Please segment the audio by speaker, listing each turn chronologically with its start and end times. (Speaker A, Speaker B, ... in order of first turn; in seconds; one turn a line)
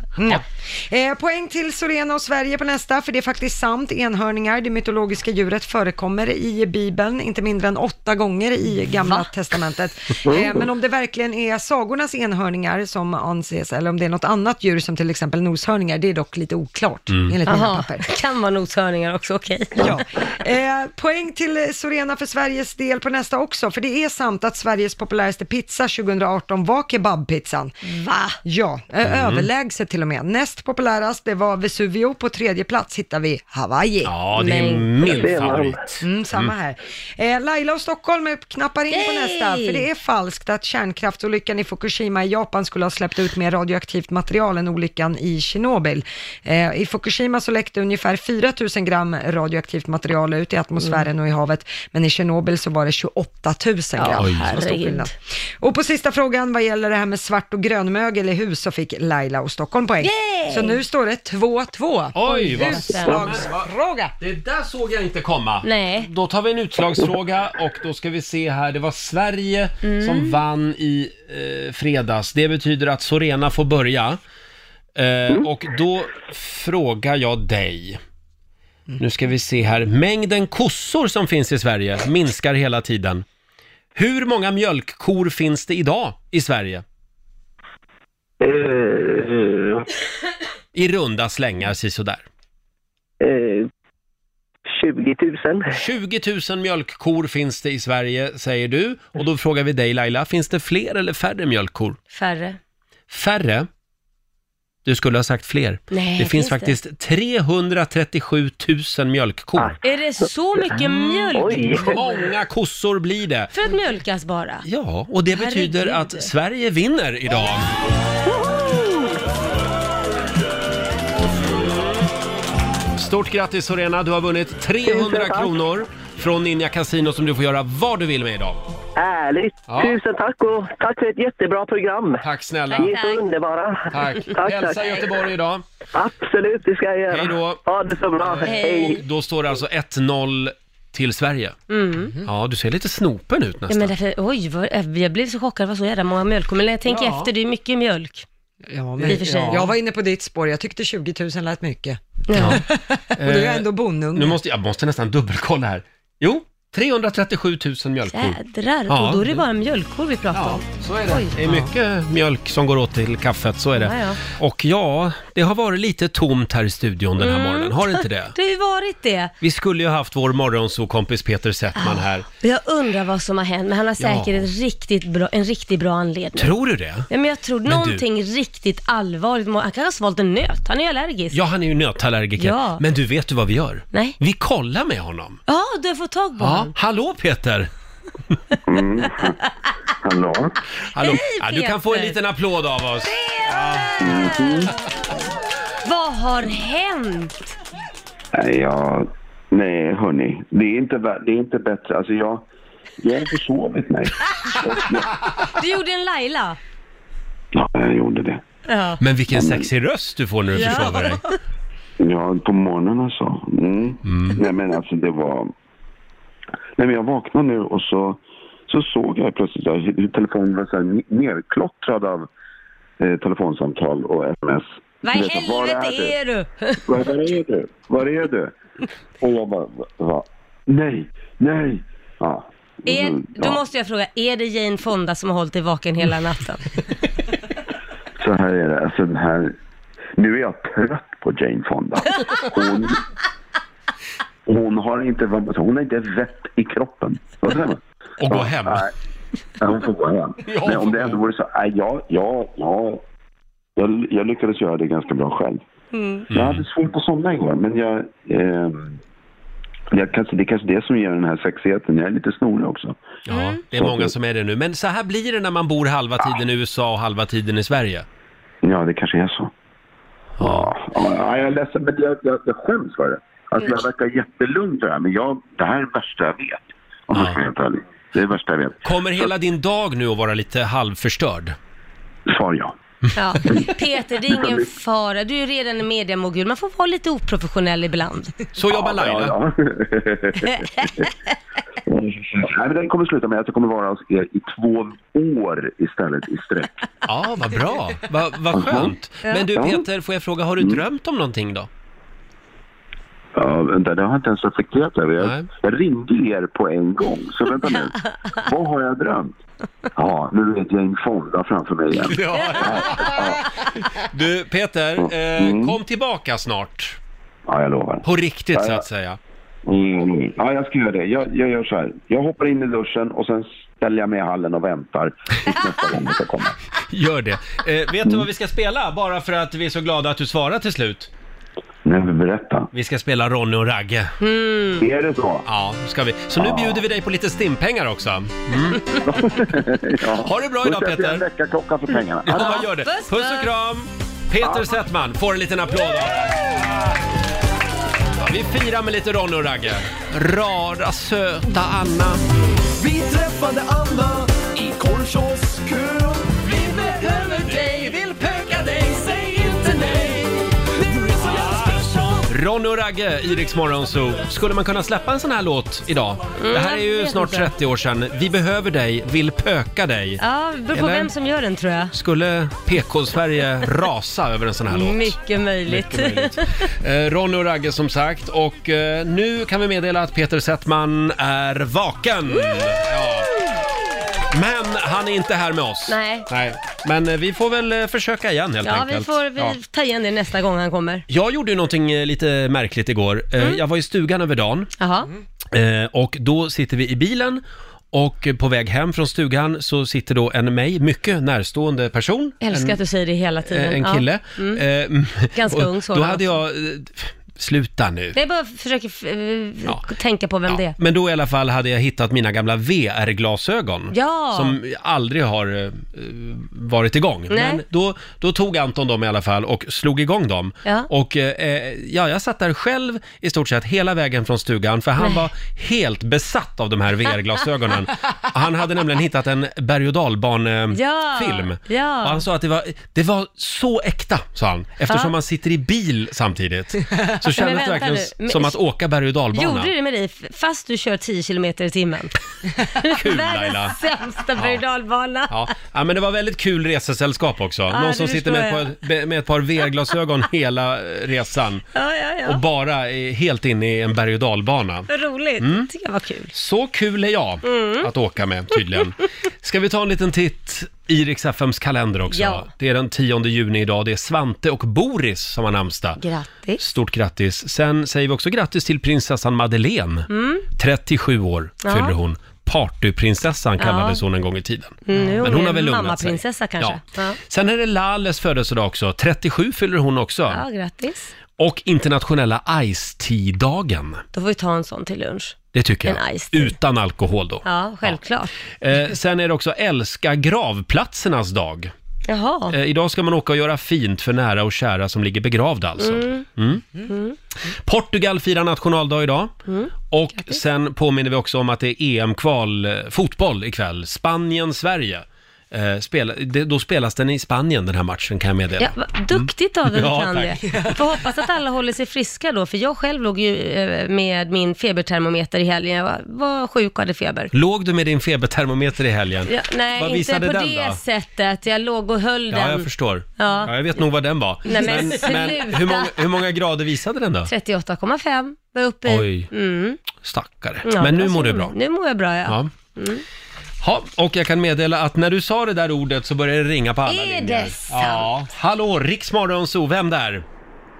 Speaker A: 0.2-18.1
Speaker B: 17.1-17.4
Speaker C: 17.5-20.0
Speaker A: 19.8-27.8
Speaker C: 27.8-28.4
Speaker A: 28.4-34.1
Speaker B: 29.0-29.5
Speaker B: 34.0-36.5
Speaker C: 34.3-35.4
Speaker D: 35.0-35.8
Speaker A: 36.0-64.1
Speaker C: 38.9-39.8
Speaker C: 54.0-55.1
Speaker B: 54.1-54.5
Speaker C: 60.0-60.8
Speaker B: 62.1-63.7
Speaker C: 62.2-63.4
Speaker B: 64.2-74.2
Speaker C: 65.6-66.1
Speaker C: 69.8-70.4
Speaker B: 75.0-78.0
Speaker B: 79.0-83.2
Speaker B: 83.9-86.8
Speaker D: 88.4-89.8
Speaker B: 90.7-92.2
Speaker D: 93.2-93.7
Speaker D: 94.7-95.8
Speaker B: 95.7-102.0
Speaker C: 102.1-102.6
Speaker B: 103.1-103.7
Speaker B: 104.8-109.7
Speaker C: 105.9-106.8
Speaker C: 109.8-112.0
Speaker B: 110.8-113.5
Speaker D: 111.3-112.0
Speaker C: 113.5-114.7
Speaker B: 114.6-117.7
Speaker C: 115.3-116.3
Speaker D: 118.2-119.1
Speaker B: 123.0-128.6
Speaker D: 124.8-125.5
Speaker D: 128.9-132.2
Speaker B: 129.7-130.0
Speaker B: 132.2-132.9
Speaker C: 132.7-133.2
Speaker D: 132.8-135.1
Speaker B: 133.9-135.6
Speaker D: 135.9-139.0
Speaker B: 137.1-137.6
Speaker B: 138.2-141.6
Speaker C: 138.4-139.0
Speaker C: 141.7-142.1
Speaker B: 142.2-143.9
Speaker C: 143.7-148.2
Speaker B: 146.9-147.3
Speaker A: 148.7-154.4
Speaker B: 149.0-149.7
Speaker C: 149.0-149.6
Speaker C: 152.3-152.6
Speaker B: 152.3-152.6
Speaker B: 153.1-159.4
Speaker C: 158.1-161.6
Speaker B: 160.3-168.3
Speaker C: 163.8-164.2
Speaker C: 167.2-169.3
Speaker B: 169.4-172.2
Speaker C: 171.8-176.5
Speaker B: 174.0-174.4
Speaker B: 176.3-177.1
Speaker C: 177.1-181.4
Speaker B: 177.7-178.0
Speaker B: 181.3-185.4
Speaker C: 182.4-182.8
Speaker C: 185.5-186.7
Speaker B: 186.4-187.7
Speaker E: 188.7-189.3
Speaker E: 190.0-190.6
Speaker B: 190.8-194.0
Speaker C: 191.0-192.2
Speaker C: 193.1-194.7
Speaker E: 194.0-194.7
Speaker C: 195.8-197.4
Speaker E: 198.3-202.4
Speaker E: 203.0-205.2
Speaker C: 205.6-206.6
Speaker E: 207.5-208.4
Speaker C: 208.7-209.0
Speaker B: 209.0-211.2
Speaker E: 209.3-209.7
Speaker C: 210.5-211.3
Speaker E: 212.0-215.5
Speaker B: 214.0-214.4
Speaker E: 216.8-222.3
Speaker E: 223.0-226.2
Speaker C: 225.0-227.1
Speaker E: 226.8-228.5
Speaker E: 229.2-233.6
Speaker C: 232.8-236.6
Speaker E: 238.2-239.5
Speaker E: 240.2-243.0
Speaker E: 244.5-248.9
Speaker B: 248.2-248.8
Speaker E: 249.6-253.0
Speaker B: 250.4-251.2
Speaker E: 253.8-255.6
Speaker C: 255.9-256.2
Speaker B: 256.3-256.6
Speaker E: 256.3-259.0
Speaker E: 259.9-263.0
Speaker B: 263.2-268.1
Speaker C: 263.3-263.6
Speaker E: 263.7-264.1
Speaker E: 268.6-269.5
Speaker B: 270.4-270.7
Speaker E: 270.4-279.3
Speaker B: 277.1-277.4
Speaker B: 278.8-281.5
Speaker E: 282.3-282.7
Speaker C: 283.1-288.3
Speaker E: 283.5-283.7
Speaker E: 284.3-284.7
Speaker B: 288.5-289.4
Speaker E: 288.7-290.9
Speaker C: 290.4-291.1
Speaker E: 291.9-296.7
Speaker B: 297.0-301.7
Speaker E: 298.5-298.9
Speaker E: 299.5-299.9
Speaker E: 303.3-309.3
Speaker B: 305.2-305.5
Speaker E: 309.9-313.4
Speaker B: 312.0-313.4
Speaker B: 314.0-317.0
Speaker E: 315.0-315.8
Speaker E: 317.5-318.8
Speaker B: 318.0-319.2
Speaker E: 319.6-326.6
Speaker B: 326.9-331.1
Speaker E: 331.8-332.7
Speaker B: 332.7-334.1
Speaker C: 334.2-334.9
Speaker E: 334.8-335.4
Speaker B: 335.4-338.8
Speaker E: 336.3-336.8
Speaker E: 339.0-342.6
Speaker B: 340.1-341.3
Speaker B: 342.2-346.5
Speaker C: 342.3-343.5
Speaker E: 344.4-344.7
Speaker B: 348.2-352.2
Speaker F: 352.7-362.2
Speaker B: 362.3-370.2
Speaker C: 366.4-367.5
Speaker C: 370.2-371.9
Speaker B: 370.7-371.1
Speaker B: 371.9-383.3
Speaker C: 374.7-376.5
Speaker C: 382.3-382.8
Speaker B: 384.3-389.6
Speaker C: 385.9-386.3
Speaker C: 388.6-391.0
Speaker B: 391.1-394.7
Speaker C: 394.8-395.1
Speaker B: 395.5-402.8
Speaker C: 402.4-404.6
Speaker B: 403.4-408.2
Speaker C: 405.3-406.4
Speaker C: 408.1-410.8
Speaker B: 410.5-439.7
Speaker C: 413.9-414.6
Speaker C: 417.3-417.6
Speaker C: 425.0-425.2
Speaker C: 430.7-432.2
Speaker C: 437.3-438.6
Speaker C: 439.3-445.4
Speaker B: 442.9-443.8
Speaker B: 444.4-444.6
Speaker B: 445.3-451.6
Speaker C: 447.7-448.7
Speaker C: 451.7-452.4
Speaker B: 452.2-454.9
Speaker C: 454.9-456.3
Speaker B: 455.4-455.7
Speaker B: 456.3-466.0
Speaker C: 457.4-457.9
Speaker C: 462.1-462.5
Speaker C: 466.0-466.6
Speaker B: 466.6-480.4
Speaker C: 470.1-470.4
Speaker C: 471.6-471.9
Speaker C: 473.6-474.0
Speaker C: 474.9-477.2
Speaker C: 480.3-481.1
Speaker B: 481.4-484.0
Speaker C: 484.1-486.6
Speaker B: 485.5-488.0
Speaker C: 487.4-488.3
Speaker B: 488.6-491.7
Speaker C: 492.1-492.5
Speaker B: 492.5-496.7
Speaker C: 495.8-496.3
Speaker C: 496.8-497.1
Speaker B: 497.5-499.3
Speaker C: 499.5-500.4
Speaker B: 499.9-510.8
Speaker C: 508.6-517.3
Speaker B: 517.3-520.8
Speaker C: 519.3-522.7
Speaker B: 522.3-527.3
Speaker C: 523.2-523.5
Speaker C: 524.4-526.0
Speaker C: 527.3-529.8
Speaker B: 528.9-529.3
Speaker B: 530.0-531.5
Speaker C: 530.6-533.0
Speaker B: 533.6-540.2
Speaker C: 536.9-538.1